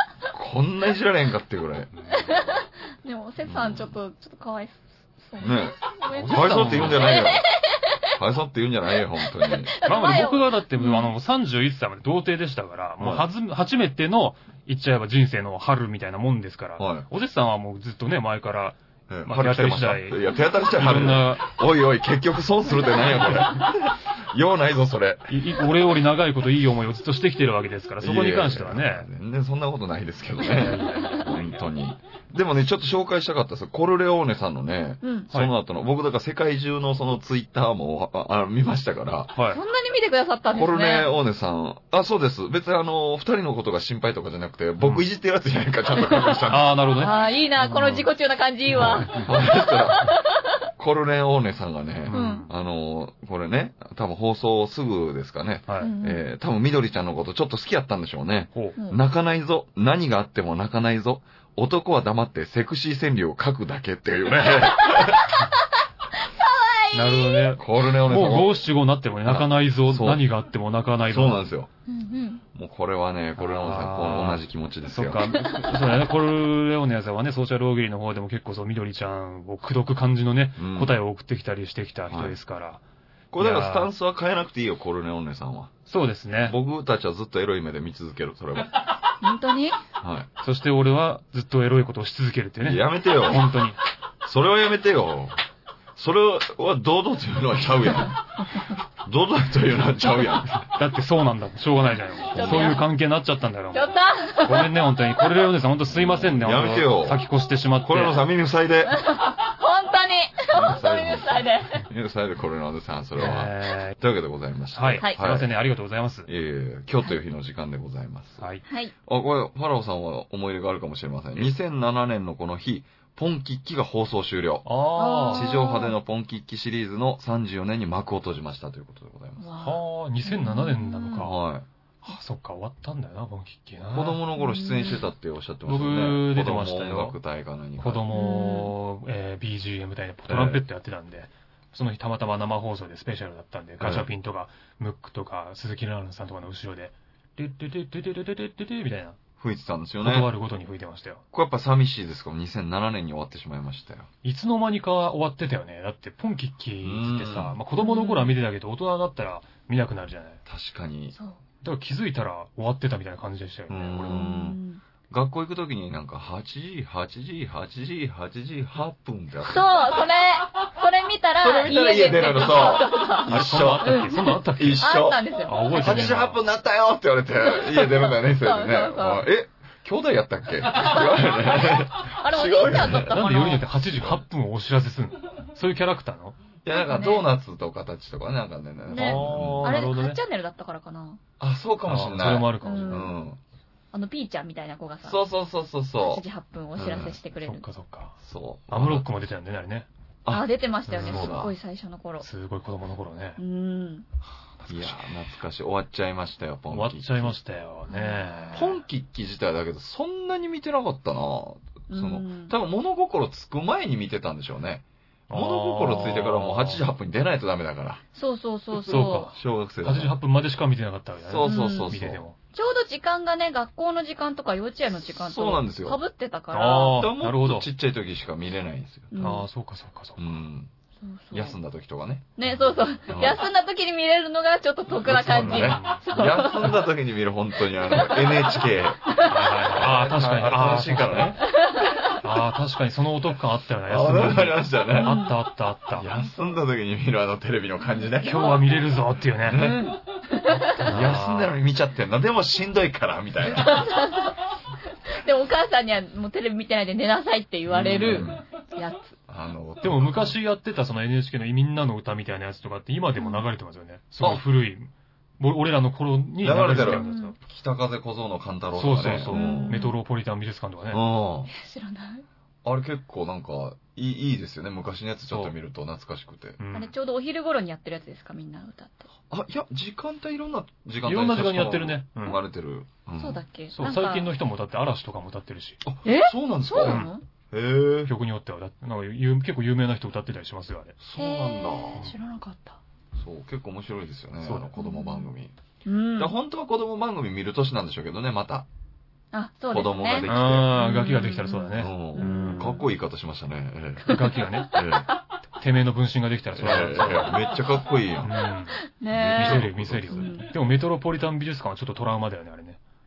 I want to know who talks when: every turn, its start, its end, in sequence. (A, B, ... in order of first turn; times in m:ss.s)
0:00.3-0:01.9 A
0:02.0-0:02.3 B
0:02.2-0:08.1 C
0:03.4-0:04.0 A
0:05.4-0:07.5 A
0:06.1-0:07.1 B
0:08.2-0:09.7 A
0:09.2-0:11.1 C
0:09.8-0:21.4 B
0:13.0-0:13.3 A
0:16.8-0:17.1 A
0:19.1-0:25.4 A
0:25.3-0:29.1 B
0:28.0-0:39.3 A
0:30.4-0:31.4 B
0:35.0-0:35.3 C
0:39.4-0:39.6 B
0:39.5-0:41.1 C
0:40.5-0:46.8 A
0:45.9-0:46.4 C
0:46.5-0:48.1 B
0:47.0-0:50.4 C
0:48.8-0:49.4 B
0:48.8-0:50.1 A
0:50.8-1:05.4 A
0:52.1-0:52.5 B
0:52.1-0:52.5 C
0:55.7-0:55.9 B
0:55.8-0:56.2 C
0:58.8-0:59.0 C
1:04.8-1:05.2 C
1:06.3-1:07.5 C
1:06.9-1:11.5 B
1:07.6-1:08.6 A
1:09.2-1:10.2 A
1:11.1-1:11.7 A
1:11.9-1:12.4 C
1:12.5-1:15.4 A
1:13.4-1:22.8 B
1:20.6-1:21.0 A
1:22.1-1:22.4 A
1:23.3-1:25.8 A
1:23.4-1:23.9 B
1:25.9-1:26.6 B
1:26.4-1:28.8 A
1:29.2-1:29.8 C
1:30.0-1:30.3 A
1:30.4-1:33.8 B
1:32.6-1:33.6 A
1:34.2-1:35.4 A
1:36.0-1:38.4 A
1:39.0-1:40.7 A
1:40.6-1:48.2 B
1:42.3-1:42.8 C
1:42.3-1:42.8 A
1:43.7-1:44.8 C
1:45.9-1:47.2 A
1:47.8-1:49.0 A
1:48.9-1:51.8 C
1:50.5-1:55.5 A
1:53.2-1:54.0 B
1:54.7-1:56.3 B
1:56.3-1:58.4 A
1:58.7-1:58.9 C
1:59.1-2:04.8 A
2:04.6-2:05.5 B
2:05.0-2:05.9 C
2:05.3-2:09.5 A
2:09.4-2:11.3 C
2:09.6-2:11.4 B
2:11.2-2:11.7 A
2:12.0-2:14.2 B
2:13.9-2:18.0 A
2:14.4-2:15.1 C
2:15.7-2:17.2 B
2:17.8-2:29.2 B
2:18.1-2:18.7 C
2:20.3-2:20.6 A
2:23.8-2:24.1 A
2:29.4-2:30.3 A
2:30.0-2:31.2 B
2:31.3-2:34.1 A
2:34.2-2:40.4 B
2:36.8-2:37.6 A
2:37.8-2:38.4 C
2:40.5-2:41.2 A
2:41.6-2:44.3 B
2:43.7-2:50.1 A
2:44.1-2:44.8 C
2:49.4-2:56.0 C
2:51.4-3:03.3 A
2:53.2-2:56.4 B
2:57.4-2:59.3 C
3:00.7-3:03.6 C
3:03.0-3:06.4 B
3:03.9-3:04.2 A
3:06.6-3:09.8 A
3:06.7-3:07.3 C
3:08.9-3:11.2 C
3:08.9-3:10.2 B
3:11.4-3:13.4 A
3:11.9-3:13.1 B
3:12.6-3:13.2 C
3:13.9-3:15.2 C
3:15.0-3:16.2 A
3:16.0-3:17.6 C
3:16.8-3:17.2 A
3:17.4-3:18.2 B
3:18.2-3:19.1 A
3:18.7-3:19.9 B
3:20.2-3:21.5 A
3:20.3-3:22.3 C
3:20.9-3:21.4 B
3:22.2-3:23.4 B
3:23.4-3:24.0 C
3:24.6-3:25.2 B
3:24.7-3:27.4 A
3:26.7-3:28.8 B
3:27.9-3:28.4 C
3:28.5-3:38.0 A
3:31.9-3:32.5 C
3:35.3-3:36.8 B
3:38.2-3:39.3 C
3:38.7-3:42.4 B
3:39.3-3:40.2 A
3:41.2-3:42.2 A
3:41.4-3:42.0 C
3:42.5-3:47.0 C
3:44.9-3:46.0 A
3:46.5-3:47.7 B
3:46.9-3:49.3 A
3:49.1-3:49.5 C
3:49.2-3:50.3 B
3:50.2-3:50.7 A
3:51.0-3:51.6 C
3:51.3-3:52.2 A
3:52.4-3:56.8 C
3:53.1-3:53.4 A
3:54.9-4:01.4 A
3:55.3-3:56.2 B
3:57.7-3:59.6 C
3:59.2-4:01.4 B
4:01.4-4:02.2 C
4:02.2-4:06.1 B
4:03.9-4:05.3 A
4:04.9-4:05.4 C
4:06.0-4:08.7 A
4:08.2-4:10.0 B
4:09.4-4:10.0 A
4:09.6-4:10.8 C
4:10.5-4:11.6 B
4:10.9-4:13.9 A
4:13.5-4:14.4 C
4:15.1-4:19.2 C
4:17.7-4:18.4 A
4:19.3-4:20.4 A
4:19.8-4:27.4 B
4:23.2-4:23.5 C
4:26.4-4:29.7 A
4:26.8-4:27.3 C
4:28.8-4:31.0 B
4:29.3-4:30.0 C
4:30.9-4:31.5 A
4:31.5-4:32.2 C
4:32.6-4:36.6 A
4:36.6-4:36.9 B
4:36.7-4:39.1 C
4:39.3-4:43.4 A
4:41.0-4:42.4 B
4:43.2-4:44.3 C
4:43.7-4:45.8 B
4:45.8-4:48.1 A
4:46.0-4:47.2 C
4:46.8-4:47.1 B
4:48.1-4:51.0 B
4:51.0-4:52.1 A
4:51.2-4:52.8 C
4:53.2-4:55.5 A
4:54.4-4:54.7 B
4:54.8-4:55.3 C
4:55.8-4:56.3 C
4:56.2-4:58.7 A
4:59.3-5:02.9 C
4:59.7-5:00.7 A
5:00.3-5:02.8 B
5:01.8-5:05.1 A
5:04.1-5:04.8 B
5:04.1-5:05.2 C
5:05.6-5:07.4 B
5:06.6-5:08.4 A
5:08.2-5:08.8 B
5:08.8-5:10.5 C
5:09.1-5:10.4 A
5:09.4-5:12.8 B